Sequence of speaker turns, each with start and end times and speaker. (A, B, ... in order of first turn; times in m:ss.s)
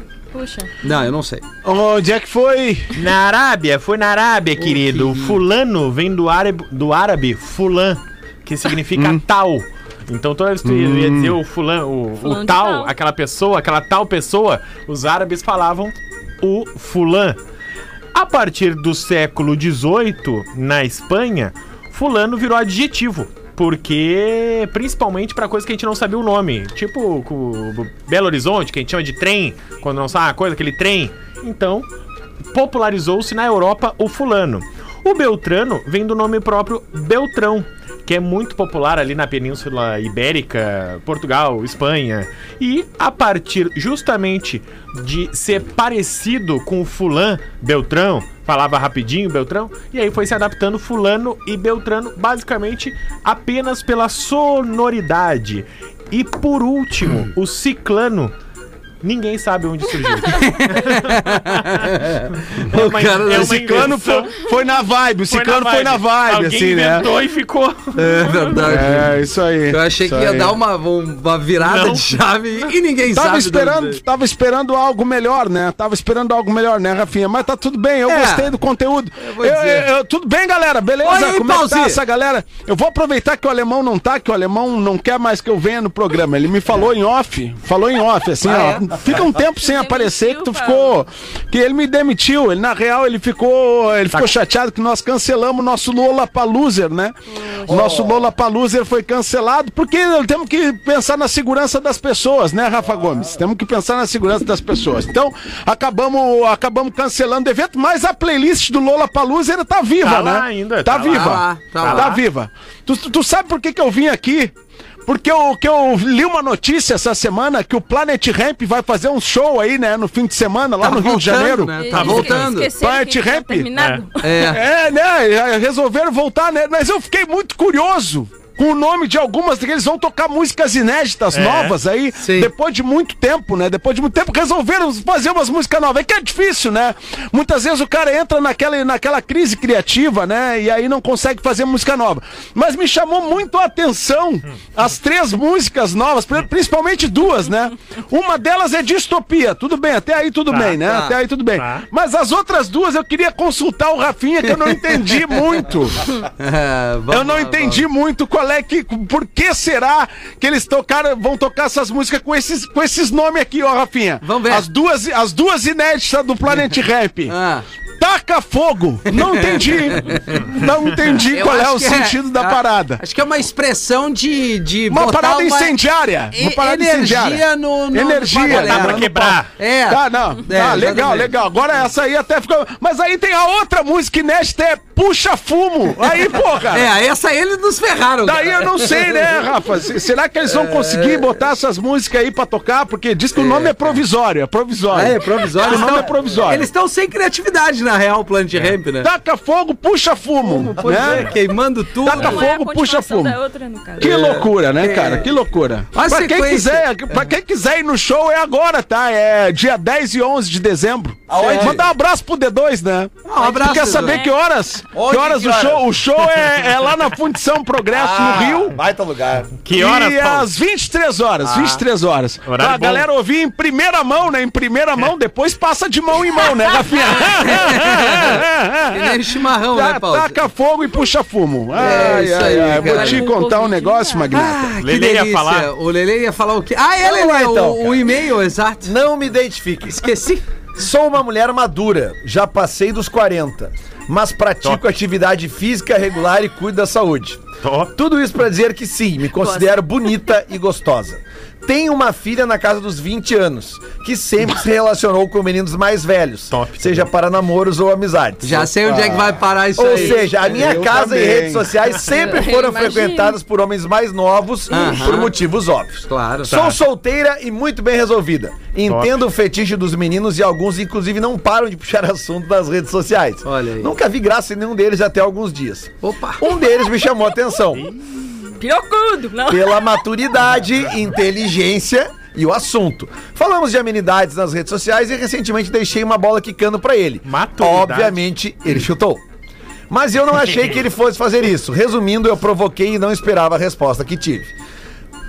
0:00.3-0:00.7 A
0:00.8-0:01.4 B
0:01.6-0:03.0 C
0:02.9-0:17.4 D
0:04.6-0:05.4 B
0:08.9-0:09.2 C
0:10.6-0:11.4 C
0:12.2-0:12.9 A
0:18.1-0:31.9 D
0:32.5-0:58.3 D
0:59.0-1:04.4 D
1:00.3-1:03.9 B
1:03.3-1:07.1 C
1:05.3-1:08.8 D
1:08.0-1:09.2 B
1:08.6-1:10.6 C
1:09.7-1:14.0 B
1:11.6-1:12.7 D
1:13.1-1:54.5 C
1:18.1-1:18.5 B
1:19.2-1:19.9 B
1:21.0-1:22.0 B
1:28.4-1:28.8 B
1:29.4-1:31.0 A
1:37.3-1:37.9 A
1:37.7-1:38.2 E
1:50.0-1:52.1 D
1:51.0-1:52.2 B
1:55.0-2:03.7 C
2:00.8-2:02.7 B
2:01.7-2:04.5 A
2:03.8-2:04.0 D
2:04.2-2:04.6 B
2:04.4-2:36.1 C
2:11.3-2:11.7 D
2:12.1-2:12.5 B
2:30.5-2:30.8 D
2:30.8-2:31.2 B
2:31.6-2:31.8 D
2:34.7-2:35.0 B
2:36.4-2:37.8 B
2:37.1-2:47.3 C
2:44.2-2:44.6 B
2:47.3-2:47.6 B
2:48.0-2:53.0 C
2:49.1-2:50.6 B
2:51.3-2:55.8 B
2:54.9-2:59.4 C
2:56.3-3:01.3 B
2:58.4-2:59.5 D
2:59.9-3:06.9 C
3:06.7-3:09.6 B
3:08.2-3:16.7 C
3:10.4-3:11.3 B
3:13.3-3:14.0 B
3:14.9-3:19.1 B
3:19.0-3:21.3 C
3:20.4-3:22.4 B
3:20.8-3:21.2 E
3:22.0-3:23.4 C
3:22.1-3:24.1 A
3:24.0-3:38.8 C
3:24.0-3:25.3 B
3:25.9-3:26.9 B
3:31.3-3:31.9 E
3:31.3-3:31.8 B
3:33.2-3:34.3 B
3:33.7-3:34.3 A
3:34.9-3:35.8 E
3:37.9-3:39.6 E
3:39.6-3:40.5 D
3:39.7-3:54.7 C
3:41.4-3:41.8 D
3:42.4-3:43.1 D
3:47.2-3:50.4 B
3:51.7-3:53.3 B
3:52.1-3:54.5 A
3:54.3-3:58.9 B
3:54.8-3:55.7 D
3:57.0-3:58.2 E
3:58.8-4:00.1 E
4:00.0-4:00.4 B
4:00.8-4:07.4 E
4:07.6-4:07.9 D
4:08.0-4:37.9 E
4:09.4-4:10.2 A
4:16.5-4:17.1 D
4:18.4-4:20.3 B
4:18.8-4:19.4 C
4:20.4-4:21.7 C
4:22.0-4:23.4 A
4:24.7-4:25.3 B
4:24.8-4:25.1 A
4:26.1-4:26.5 B
4:26.5-4:26.8 D
4:28.8-4:29.1 D
4:33.4-4:33.9 B
4:36.0-4:36.4 B
4:37.7-4:38.0 D
4:38.1-4:40.0 A
4:39.5-4:49.2 E
4:47.2-4:48.2 D
4:49.9-4:54.5 E
4:50.5-4:50.8 D